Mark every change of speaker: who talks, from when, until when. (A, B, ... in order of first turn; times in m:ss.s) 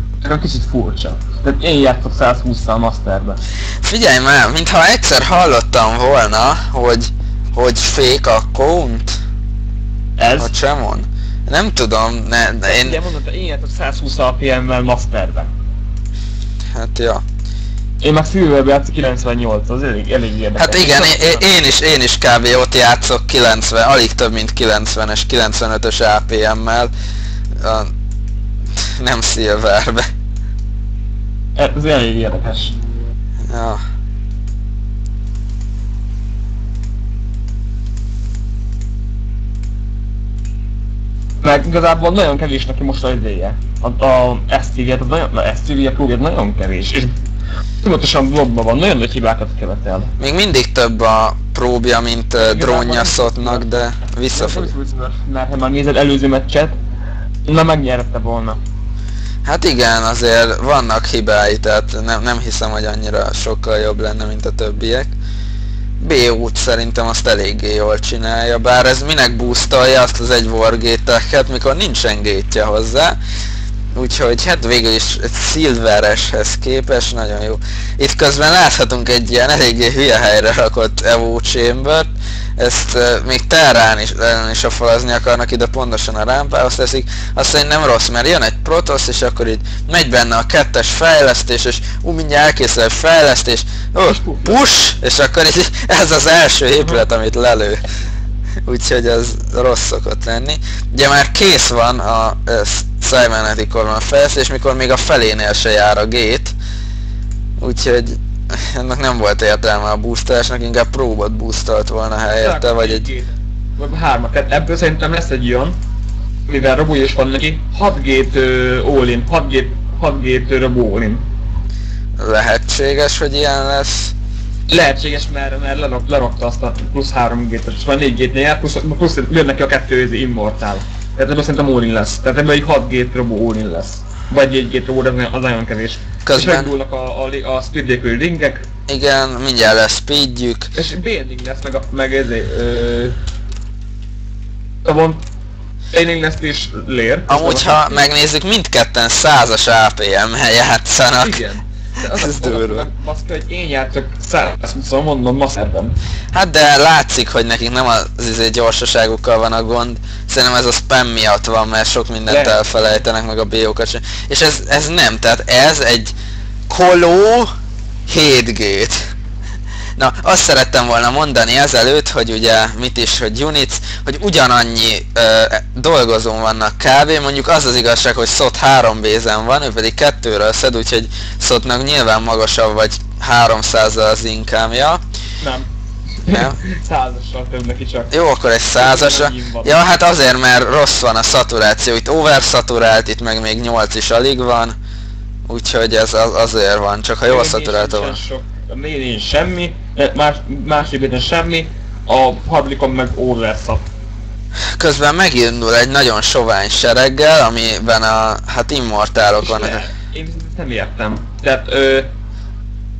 0:00.2-0:03.4 A
0:03.8-0:09.2 B
0:10.2-0:10.5 A
0:10.4-0:13.0 B
0:12.6-0:15.5 A
0:16.8-0:17.2 B
0:18.0-0:21.4 A
0:20.6-0:26.9 B
0:27.6-0:27.9 B
0:29.0-0:30.0 B
0:31.6-0:32.8 A
0:33.5-0:33.8 B
0:41.4-0:47.1 A
0:47.8-0:50.1 A
0:50.2-0:54.7 B
0:52.3-0:56.7 A
0:57.4-0:58.6 A
0:59.4-1:05.1 B
1:06.0-1:13.2 B
1:13.9-1:37.8 B
1:34.1-1:34.6 A
1:38.6-1:46.5 B
1:47.6-1:53.1 B
1:52.4-1:55.8 A
1:56.5-2:01.2 A
2:02.2-2:04.1 B
2:04.7-2:18.6 A
2:16.2-2:16.7 B
2:18.9-2:20.7 B
2:20.7-2:23.1 A
2:24.8-2:25.2 A
2:25.9-2:28.0 A
2:27.3-2:31.4 B
2:31.2-2:35.9 A
2:32.0-2:32.8 B
2:36.3-2:46.1 B
2:42.3-2:42.6 A
2:46.7-2:47.5 B
2:48.1-2:49.0 B
2:50.0-3:05.0 B
3:05.4-3:05.7 A
3:06.2-3:08.1 A
3:06.3-3:06.6 B
3:08.1-3:14.7 B
3:08.8-3:09.8 A
3:15.5-3:18.2 B
3:17.3-3:23.8 A
3:24.8-3:29.9 B
3:29.4-3:32.1 A